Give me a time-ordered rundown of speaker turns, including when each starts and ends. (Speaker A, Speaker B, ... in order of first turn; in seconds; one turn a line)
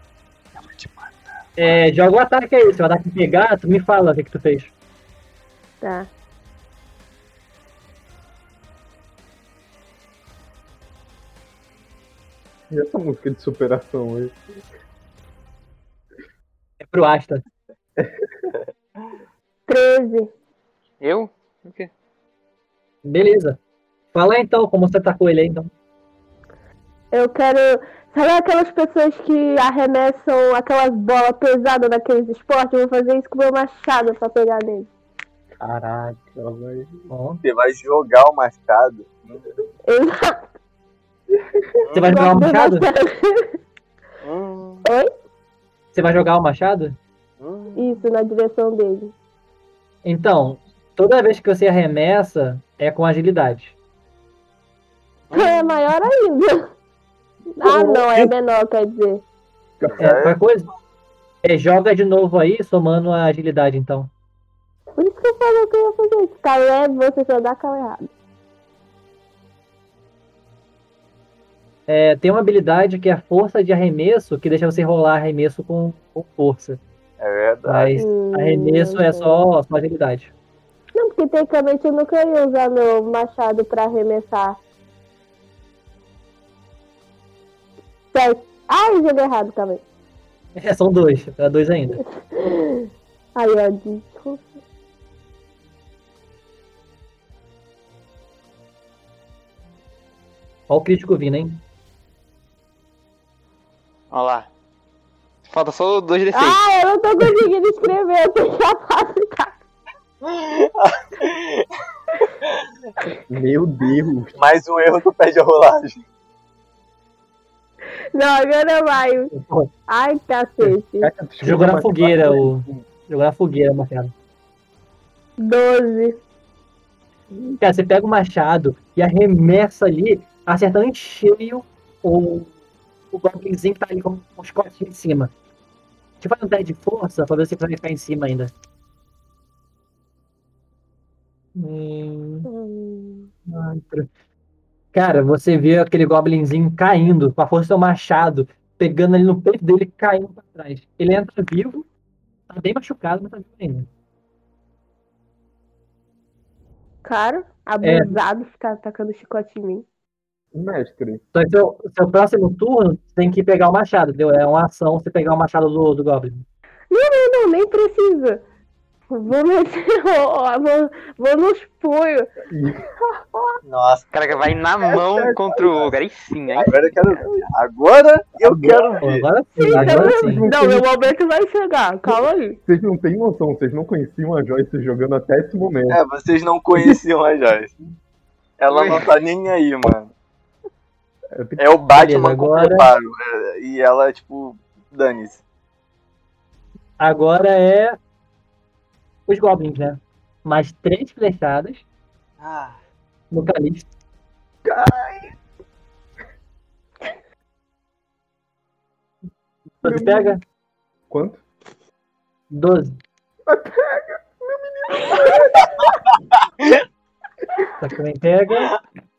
Speaker A: 0.6-1.7
Speaker B: 1.6-4.7
Speaker C: 5.8-6.1
Speaker D: 12.7-14.3
Speaker B: 16.8-17.4
Speaker C: 19.7-20.3
Speaker E: 21.0-21.9
Speaker B: 23.1-23.6
Speaker B: 24.1-25.7
Speaker C: 27.1-34.9
Speaker D: 35.6-36.9
Speaker B: 37.1-37.4
Speaker A: 37.4-39.5
Speaker C: 39.9-40.5
Speaker A: 41.8-42.2
Speaker B: 41.9-42.9
Speaker C: 42.1-43.5
Speaker A: 44.2-44.9
Speaker B: 45.9-47.0
Speaker A: 47.4-48.0
Speaker C: 47.8-49.1
Speaker B: 50.0-53.7
Speaker A: 55.3-55.6
Speaker C: 55.3-56.7
Speaker C: 57.6-59.2
Speaker A: 57.7-58.3
Speaker A: 59.8-60.4
Speaker B: 60.0-60.7
Speaker B: 61.4-64.1
Speaker C: 65.0-68.1
Speaker B: 71.9-76.8
Speaker A: 77.2-78.0
Speaker B: 77.6-80.3
Speaker C: 78.0-79.4
Speaker C: 80.9-84.6
Speaker C: 88.1-89.8
Speaker B: 90.6-92.0
Speaker C: 92.3-94.4
Speaker B: 100.7-101.6
Speaker E: 104.1-104.5
Speaker E: 105.5-106.6
Speaker C: 106.3-109.5
Speaker A: 110.2-111.7
Speaker D: 113.3-114.4
Speaker A: 114.3-116.0
Speaker C: 118.1-119.3
Speaker B: 119.3-119.7
Speaker C: 119.9-121.1
Speaker D: 121.0-122.8
Speaker B: 121.4-124.1
Speaker C: 125.4-126.2
Speaker B: 127.6-132.5
Speaker B: 133.1-135.3
Speaker B: 136.2-138.5
Speaker B: 141.6-142.5
Speaker C: 142.5-143.3
Speaker B: 143.5-144.1
Speaker B: 144.9-151.9
Speaker B: 152.5-153.9
Speaker C: 157.0-159.8
Speaker B: 157.8-158.1
Speaker D: 160.5-161.2
Speaker B: 161.3-166.4
Speaker C: 166.9-168.4
Speaker C: 169.1-172.3
Speaker D: 172.5-173.6
Speaker A: 173.6-174.4
Speaker E: 174.1-176.8
Speaker D: 174.9-175.9
Speaker A: 176.6-179.3
Speaker D: 178.4-178.9
Speaker B: 179.0-180.4
Speaker C: 179.6-182.6
Speaker D: 179.7-180.9
Speaker D: 182.7-186.0
Speaker A: 185.9-187.7
Speaker A: 188.6-190.1
Speaker E: 188.7-189.1
Speaker D: 191.3-191.6
Speaker A: 191.6-195.4
Speaker B: 191.9-192.9
Speaker B: 197.0-198.0
Speaker B: 199.3-201.8
Speaker A: 202.4-202.8
Speaker B: 203.3-203.9
Speaker D: 204.6-205.3
Speaker B: 209.8-210.4
Speaker D: 209.8-210.4
Speaker D: 211.1-211.4
Speaker B: 212.5-213.0
Speaker D: 213.5-215.7
Speaker B: 217.8-218.7